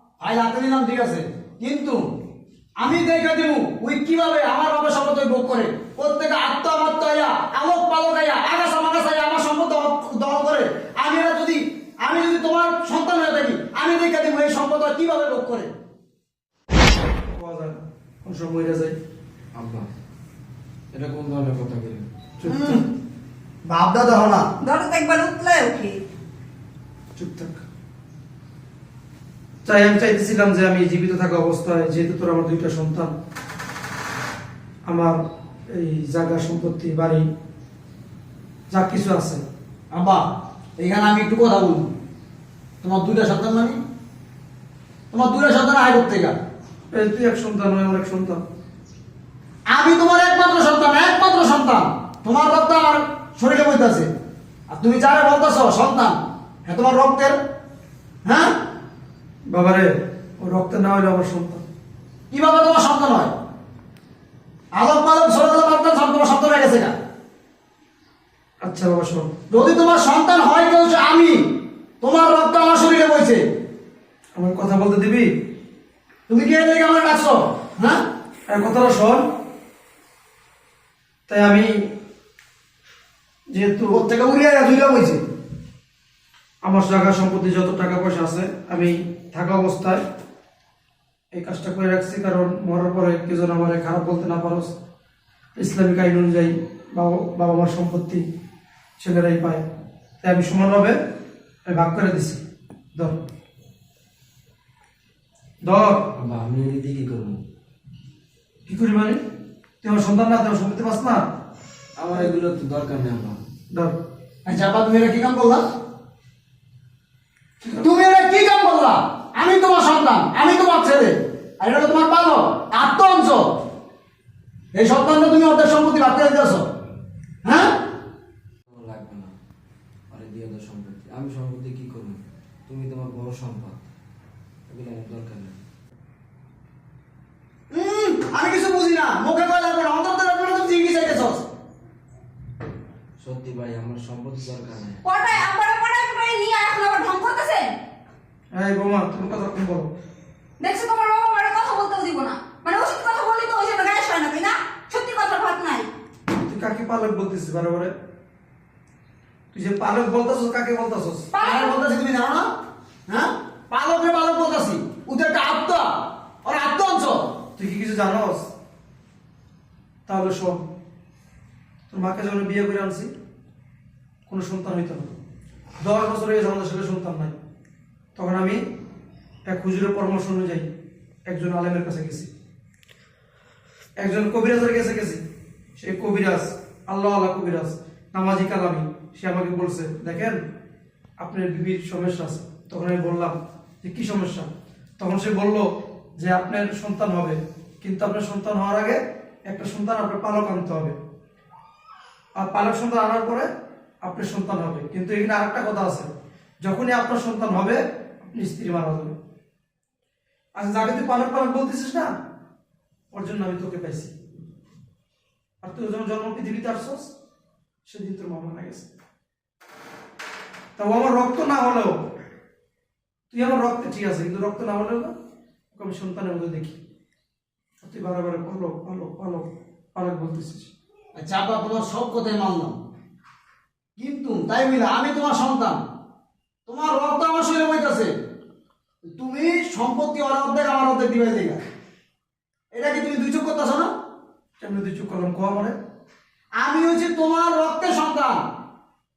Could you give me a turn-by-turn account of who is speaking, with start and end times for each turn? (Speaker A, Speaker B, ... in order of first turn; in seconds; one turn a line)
Speaker A: 0.2-2.0
Speaker A: 2.8-15.7
Speaker B: 17.3-19.0
Speaker C: 19.6-19.9
Speaker C: 20.9-22.1
Speaker B: 22.4-22.8
Speaker A: 22.5-22.8
Speaker A: 23.6-24.5
Speaker D: 24.6-26.0
Speaker B: 27.2-27.6
Speaker B: 29.6-33.1
Speaker B: 34.9-37.3
Speaker B: 38.7-39.5
Speaker A: 39.9-41.9
Speaker A: 42.8-43.8
Speaker A: 45.1-46.4
Speaker B: 46.9-48.4
Speaker A: 49.7-54.1
Speaker A: 54.7-57.4
Speaker A: 58.2-58.5
Speaker B: 59.5-61.6
Speaker A: 62.3-63.3
Speaker A: 64.7-67.0
Speaker B: 68.6-69.4
Speaker A: 69.5-71.5
Speaker A: 72.0-73.4
Speaker B: 74.3-75.3
Speaker A: 76.3-78.0
Speaker B: 78.5-79.3
Speaker B: 81.3-81.9
Speaker B: 83.5-84.0
Speaker A: 83.9-85.2
Speaker B: 86.6-90.0
Speaker B: 91.3-94.7
Speaker B: 95.6-98.2
Speaker B: 99.0-99.6
Speaker B: 100.2-101.0
Speaker B: 101.7-102.4
Speaker B: 105.6-106.1
Speaker C: 106.2-107.4
Speaker B: 108.7-109.2
Speaker B: 109.8-111.2
Speaker C: 112.0-113.4
Speaker B: 113.7-114.0
Speaker A: 114.5-115.7
Speaker A: 117.7-123.5
Speaker A: 124.7-126.7
Speaker A: 127.5-127.8
Speaker C: 128.7-129.3
Speaker C: 130.1-133.8
Speaker C: 134.7-135.6
Speaker A: 137.7-141.4
Speaker C: 143.2-145.0
Speaker D: 145.1-147.7
Speaker B: 148.5-149.9
Speaker D: 150.6-155.9
Speaker B: 156.3-157.9
Speaker B: 159.5-161.3
Speaker D: 161.3-161.8
Speaker A: 161.4-162.5
Speaker A: 163.1-167.3
Speaker B: 167.6-168.5
Speaker B: 170.1-170.6
Speaker B: 171.9-173.1
Speaker B: 174.3-175.1
Speaker B: 175.8-177.3
Speaker B: 178.2-178.6
Speaker B: 179.5-180.7
Speaker B: 181.3-182.3
Speaker B: 184.0-185.2
Speaker B: 185.8-190.4
Speaker B: 191.2-201.0
Speaker B: 202.3-203.5
Speaker B: 204.0-206.1
Speaker B: 206.6-209.2
Speaker B: 210.6-212.1
Speaker B: 213.1-214.1
Speaker B: 215.6-217.1
Speaker B: 217.8-218.9
Speaker B: 220.8-222.0
Speaker B: 223.3-225.1
Speaker B: 225.7-226.8
Speaker B: 227.8-230.7
Speaker A: 231.2-232.8
Speaker A: 234.0-235.8
Speaker A: 236.7-238.1
Speaker A: 239.2-241.6
Speaker A: 242.7-243.9
Speaker B: 244.6-245.8
Speaker A: 246.6-248.4